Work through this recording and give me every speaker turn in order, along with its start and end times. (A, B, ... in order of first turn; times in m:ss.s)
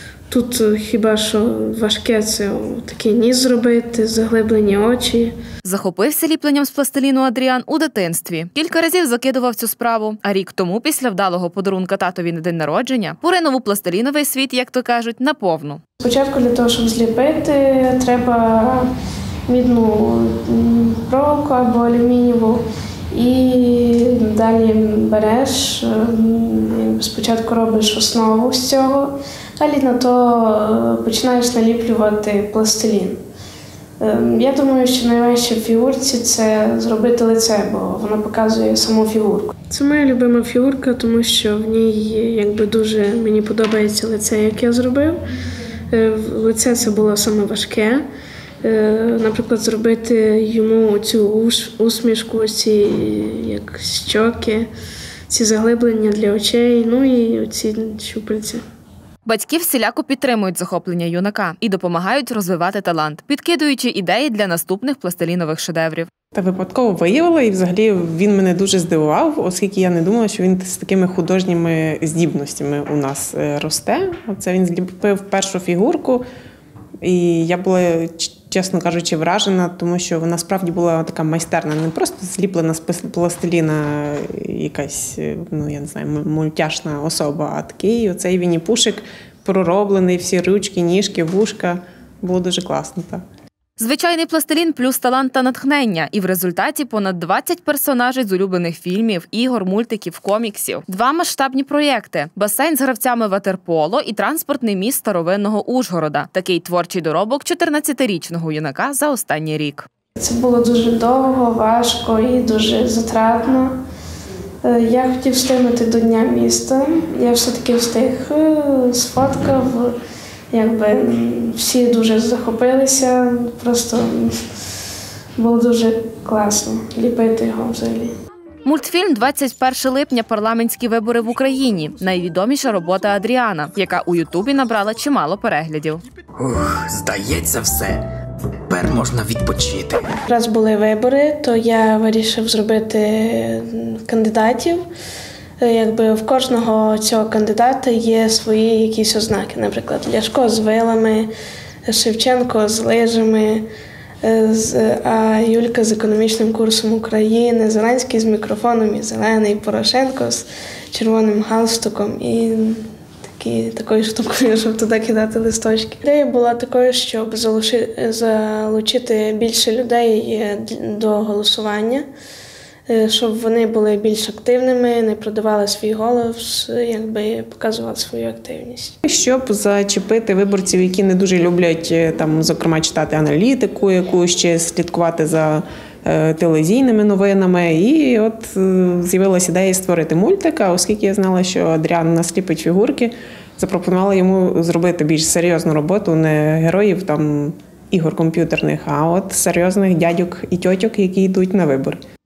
0:00.3-0:05.4 A
0:05.6-0:15.8 B
0:16.0-0:18.9 A
0:19.5-0:33.2 A
0:34.0-0:45.2 A
0:45.9-0:48.0 A
0:48.6-0:54.7 A
0:55.3-0:58.6 A
0:59.2-1:06.1 B
1:06.3-1:16.2 C
1:17.0-1:33.2 C
1:33.8-1:49.9 B
1:50.2-1:53.8 A
1:54.6-2:00.0 A
2:00.5-2:04.4 A
2:05.4-2:08.1 A
2:08.6-2:16.0 B
2:16.4-2:18.0 D
2:18.7-2:20.2 D
2:20.3-2:24.8 A
2:25.6-2:31.3 A
2:31.9-2:33.6 A
2:34.2-2:52.1 A
2:52.9-2:59.0 A
2:59.0-3:22.0 C